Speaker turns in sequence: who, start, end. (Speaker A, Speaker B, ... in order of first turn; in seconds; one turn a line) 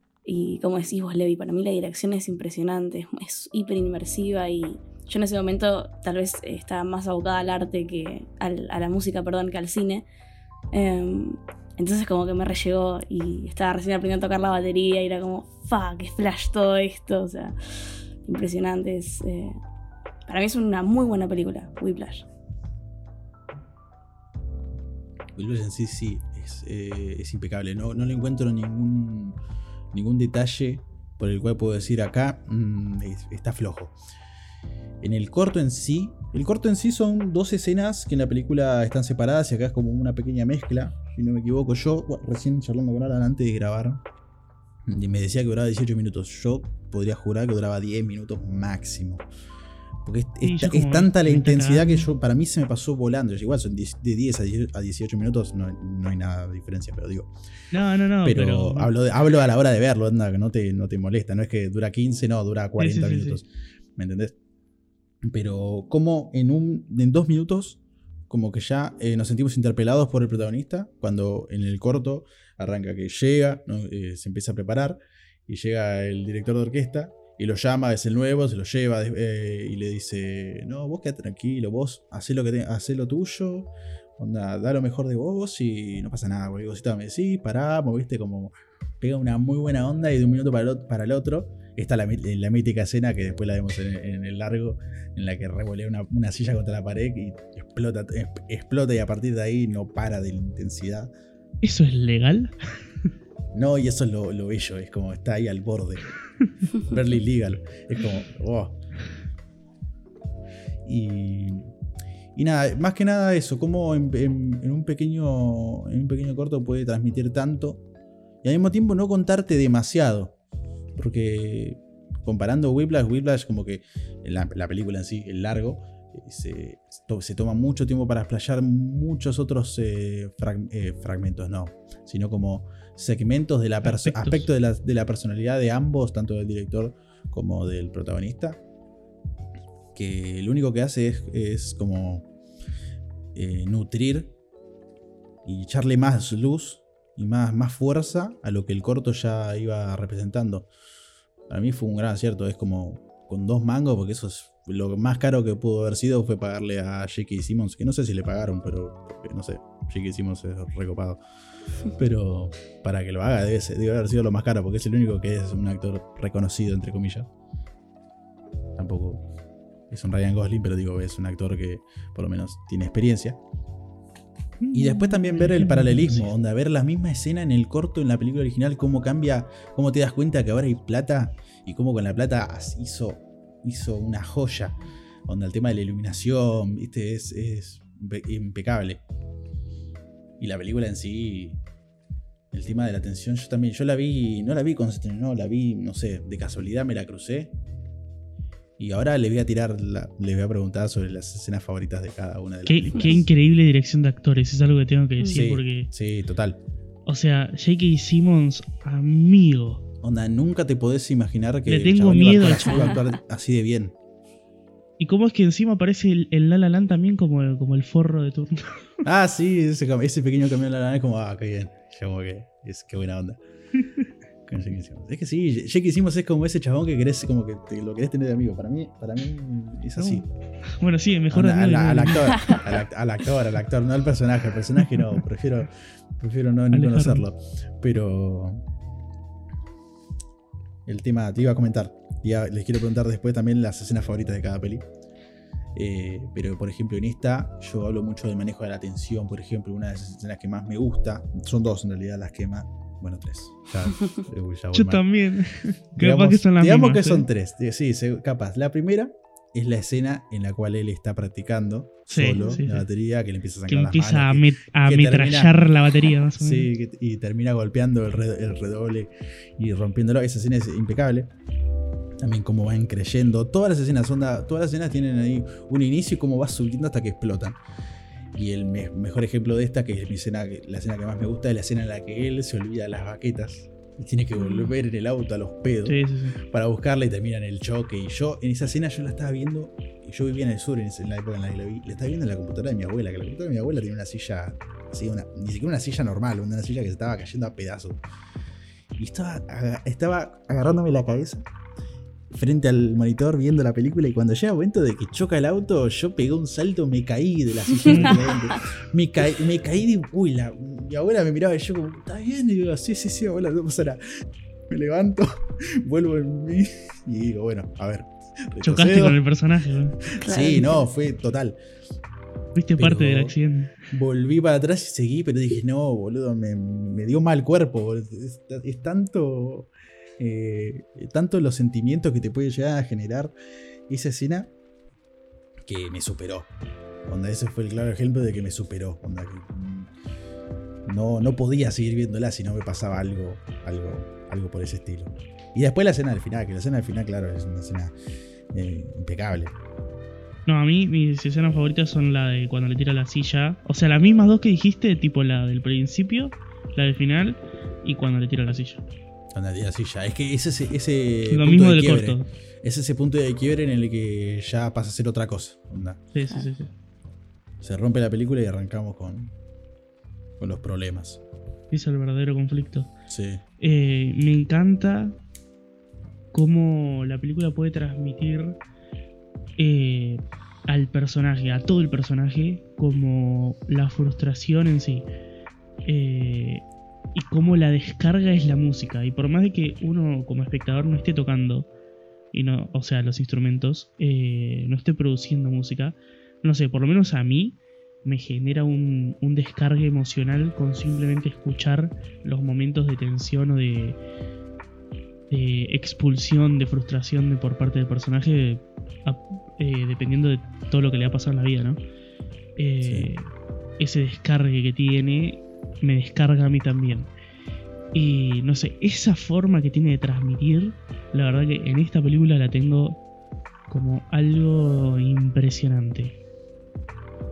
Speaker A: 0.2-10.1
Speaker A: 10.7-17.6
Speaker A: 18.2-19.6
Speaker A: 20.3-22.3
Speaker B: 25.4-29.4
Speaker B: 29.9-34.0
Speaker B: 35.0-44.0
Speaker B: 44.9-49.3
Speaker B: 50.0-57.3
Speaker C: 50.4-52.1
Speaker C: 57.7-58.9
Speaker B: 58.2-64.4
Speaker C: 62.8-63.4
Speaker B: 65.2-101.1
Speaker C: 101.6-103.1
Speaker B: 103.5-106.1
Speaker B: 106.7-108.8
Speaker B: 110.8-111.7
Speaker B: 112.3-117.8
Speaker B: 118.4-120.4
Speaker B: 121.0-138.6
Speaker C: 133.8-134.5
Speaker B: 139.9-142.3
Speaker B: 143.3-144.3
Speaker B: 145.4-150.7
Speaker B: 151.5-161.2
Speaker B: 161.9-167.3
Speaker B: 168.8-169.3
Speaker B: 169.9-173.4
Speaker C: 174.6-176.3
Speaker B: 174.7-189.0
Speaker B: 190.4-191.6
Speaker B: 192.5-197.5
Speaker B: 198.8-203.3
Speaker C: 202.7-205.9
Speaker B: 205.3-206.6
Speaker C: 207.1-209.8
Speaker B: 210.0-214.0
Speaker C: 211.7-213.0
Speaker A: 212.7-213.0
Speaker C: 215.0-218.9
Speaker B: 219.0-223.4
Speaker C: 223.8-224.1
Speaker B: 224.5-230.3
Speaker C: 230.0-230.2
Speaker C: 230.8-232.7
Speaker B: 231.3-238.7
Speaker C: 236.7-237.3
Speaker B: 240.9-244.9
Speaker B: 245.8-255.0
Speaker C: 254.7-257.3
Speaker B: 256.0-265.6
Speaker C: 262.1-262.9
Speaker C: 263.7-266.7
Speaker B: 266.4-271.3
Speaker B: 272.2-277.6
Speaker B: 278.3-298.0
Speaker C: 285.9-286.4
Speaker B: 299.0-301.4
Speaker B: 302.3-314.0
Speaker C: 307.9-308.4
Speaker A: 308.3-308.6
Speaker B: 314.7-319.2
Speaker C: 318.6-320.0
Speaker B: 320.1-321.6
Speaker A: 320.2-320.9
Speaker C: 322.6-323.8
Speaker B: 322.8-323.4
Speaker B: 323.9-333.3
Speaker B: 333.9-334.5
Speaker B: 335.6-336.5
Speaker B: 337.1-339.9
Speaker B: 340.9-347.9
Speaker B: 348.5-349.6
Speaker C: 350.5-358.8
Speaker B: 359.4-366.0
Speaker C: 361.3-362.3
Speaker C: 366.1-366.7
Speaker B: 367.6-369.3
Speaker B: 370.4-371.2
Speaker C: 371.7-372.9
Speaker B: 373.1-373.4
Speaker C: 373.6-375.2
Speaker C: 376.3-378.6
Speaker C: 379.6-385.1
Speaker C: 385.9-386.6
Speaker C: 387.1-391.7
Speaker C: 392.3-404.0
Speaker C: 405.3-411.8
Speaker C: 412.6-417.1
Speaker B: 412.8-413.1
Speaker C: 417.9-423.0
Speaker C: 423.7-426.2